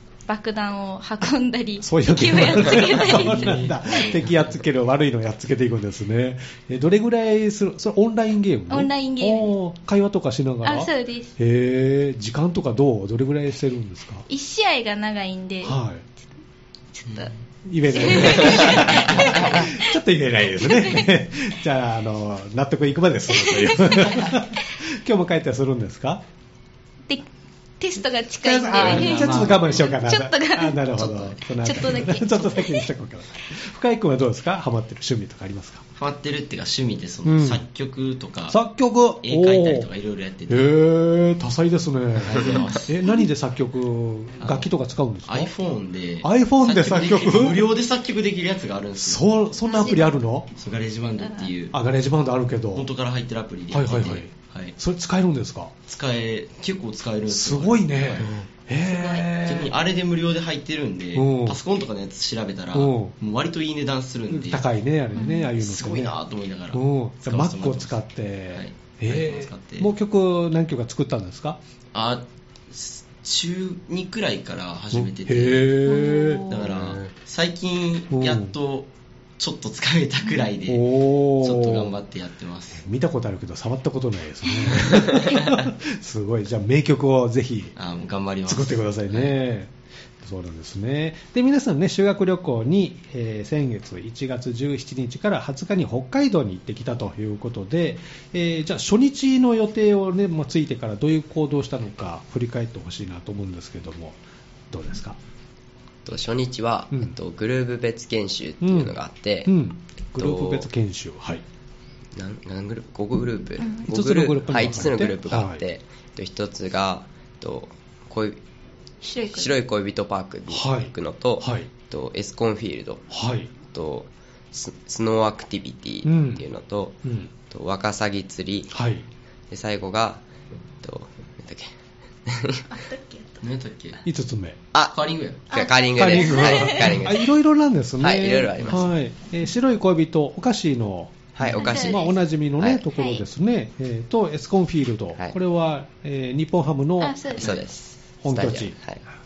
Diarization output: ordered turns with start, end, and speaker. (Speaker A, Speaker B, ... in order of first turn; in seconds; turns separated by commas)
Speaker A: 0.3-4.2, Speaker B: 1.8-14.3, Speaker C: 3.0-4.3, Speaker A: 8.7-9.5, Speaker A: 10.6-11.3, Speaker A: 14.3-15.8, Speaker B: 15.6-16.0, Speaker A: 16.9-17.3, Speaker B: 17.7-26.2, Speaker A: 17.9-19.9, Speaker C: 18.1-19.3, Speaker A: 20.6-21.1, Speaker A: 23.3-24.4, Speaker A: 27.8-31.0, Speaker B: 28.4-35.8, Speaker C: 28.7-29.9, Speaker C: 31.0-31.4, Speaker A: 31.6-32.9, Speaker C: 36.0-38.6, Speaker B: 37.2-37.6, Speaker B: 38.5-39.9, Speaker C: 39.2-40.7, Speaker B: 40.5-45.5, Speaker C: 42.2-42.9, Speaker C: 44.4-44.7, Speaker C: 45.3-49.2, Speaker B: 46.2-47.7, Speaker B: 49.0-50.5, Speaker A: 49.6-50.2, Speaker C: 50.6-51.7, Speaker A: 51.2-51.5, Speaker B: 51.7-52.9, Speaker C: 52.8-54.7, Speaker B: 53.7-55.7, Speaker C: 55.9-58.5, Speaker B: 57.3-59.7, Speaker A: 58.9-59.3, Speaker C: 59.4-64.6, Speaker B: 61.1-61.6, Speaker B: 62.7-63.1, Speaker B: 64.3-66.2, Speaker A: 65.2-65.5, Speaker C: 65.6-67.9, Speaker B: 66.7-71.6, Speaker C: 68.5-69.9, Speaker C: 71.9-75.8, Speaker B: 74.9-76.5, Speaker A: 75.8-76.8, Speaker C: 76.5-78.9, Speaker B: 78.1-78.5, Speaker C: 79.4-80.8, Speaker B: 80.7-81.9, Speaker C: 81.4-82.8, Speaker B: 82.8-87.7, Speaker C: 87.8-89.3, Speaker B: 88.5-104.2, Speaker B: 104.7-105.2, Speaker D: 106.1-109.5, Speaker B: 108.6-111.4, Speaker D: 110.2-110.6, Speaker D: 112.2-118.4, Speaker A: 113.6-113.9, Speaker B: 113.9-115.6, Speaker A: 119.0-119.5, Speaker D: 119.4-123.0, Speaker B: 120.5-121.7, Speaker B: 123.1-123.5, Speaker D: 123.7-127.0, Speaker B: 126.0-126.4, Speaker B: 127.0-127.3, Speaker D: 127.5-128.7, Speaker B: 128.7-129.1, Speaker D: 129.5-130.2, Speaker D: 130.8-131.7, Speaker D: 132.3-132.6, Speaker A: 132.7-133.4, Speaker C: 133.4-134.0, Speaker B: 134.1-134.6, Speaker C: 134.9-137.0, Speaker A: 135.5-137.0, Speaker D: 135.5-137.2, Speaker B: 136.0-147.6, Speaker D: 138.0-138.9, Speaker C: 138.2-138.9, Speaker D: 141.4-142.0, Speaker C: 141.4-141.9, Speaker A: 141.6-142.2, Speaker A: 142.9-143.2, Speaker A: 147.0-147.6, Speaker C: 147.4-147.7, Speaker D: 147.4-149.0, Speaker B: 148.2-148.8